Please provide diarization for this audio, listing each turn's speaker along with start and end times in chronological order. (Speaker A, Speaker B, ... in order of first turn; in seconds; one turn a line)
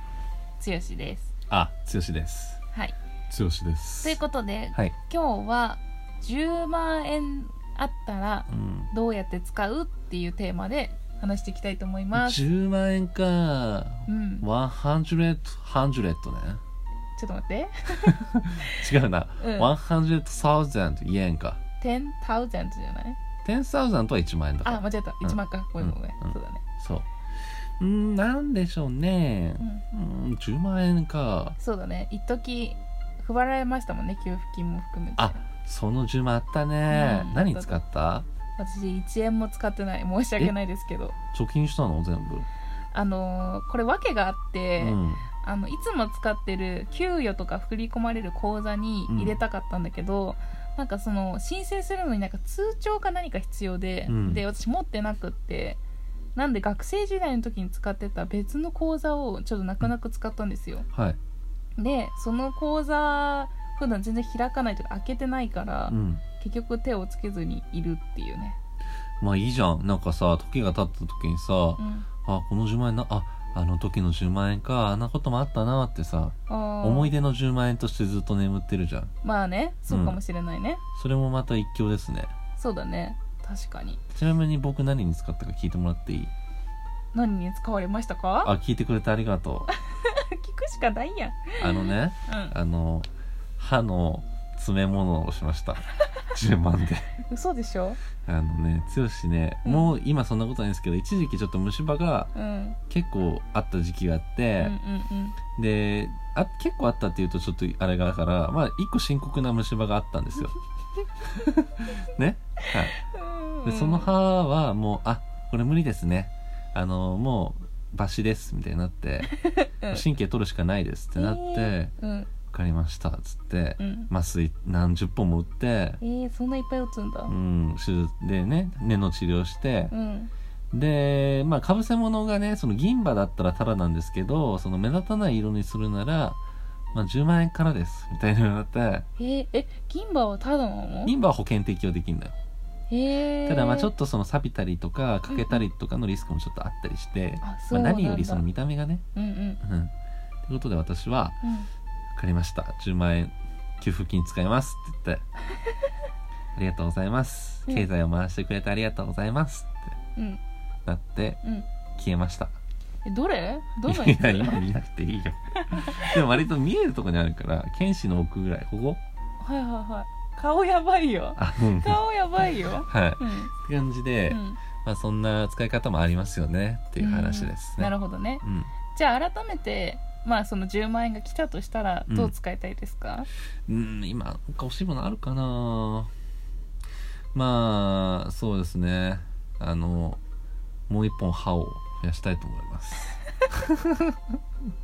Speaker A: 0.6-1.3
Speaker B: 1.5-2.6
Speaker B: 3.3-4.2
Speaker A: 4.0-12.4
Speaker B: 8.5-8.9
Speaker B: 12.1-16.6
Speaker A: 14.1-14.5
Speaker A: 17.1-18.8
Speaker B: 18.1-21.6
Speaker A: 19.4-19.7
Speaker A: 21.8-23.2
Speaker B: 23.4-27.1
Speaker A: 24.6-26.6
Speaker B: 27.8-31.6
Speaker A: 31.6-35.4
Speaker B: 35.2-38.2
Speaker A: 36.9-37.8
Speaker A: 38.6-41.1
Speaker B: 41.3-42.5
Speaker A: 42.9-55.8
Speaker B: 44.8-45.2
Speaker B: 49.1-49.4
Speaker B: 54.1-54.4
Speaker A: 56.3-60.9
Speaker B: 60.9-61.2
Speaker A: 61.8-68.6
Speaker B: 65.9-66.2
Speaker B: 69.2-79.1
Speaker A: 71.8-72.1
Speaker A: 76.5-77.1
Speaker A: 79.2-80.8
Speaker B: 79.9-80.2
Speaker B: 81.0-82.3
Speaker A: 82.6-84.0
Speaker B: 84.1-86.3
Speaker A: 87.1-88.5
Speaker B: 88.4-89.7
Speaker A: 89.8-92.5
Speaker B: 91.6-97.1
Speaker A: 97.3-98.0
Speaker B: 98.2-102.3
Speaker A: 99.6-100.0
Speaker A: 102.3-102.8
Speaker B: 102.9-104.8
Speaker A: 104.6-105.4
Speaker B: 105.5-110.5
Speaker B: 111.2-112.9
Speaker A: 112.6-114.1
Speaker B: 113.6-119.3
Speaker A: 119.3-120.0
Speaker B: 119.9-121.9
Speaker A: 121.2-122.3
Speaker B: 122.5-126.0
Speaker A: 123.8-124.1
Speaker A: 126.0-127.3
Speaker B: 127.3-129.9
Speaker A: 129.9-130.3
Speaker B: 130.7-136.4
Speaker B: 136.9-139.1
Speaker A: 139.2-141.1
Speaker B: 141.1-142.3
Speaker A: 142.9-143.9
Speaker B: 143.4-149.0
Speaker A: 145.3-145.6
Speaker A: 147.4-148.4
Speaker A: 149.1-149.6
Speaker B: 149.6-149.9
Speaker B: 150.4-151.4
Speaker A: 151.4-151.7
Speaker B: 152.1-155.2
Speaker B: 156.5-159.9
Speaker B: 160.8-161.4
Speaker B: 162.0-162.5
Speaker A: 163.0-164.6
Speaker B: 163.8-169.0
Speaker A: 165.6-166.2
Speaker A: 169.4-173.5
Speaker B: 171.4-172.0
Speaker B: 172.9-178.7
Speaker A: 174.3-174.6
Speaker A: 177.0-183.3
Speaker B: 183.7-186.1
Speaker B: 187.3-190.2
Speaker B: 190.9-194.2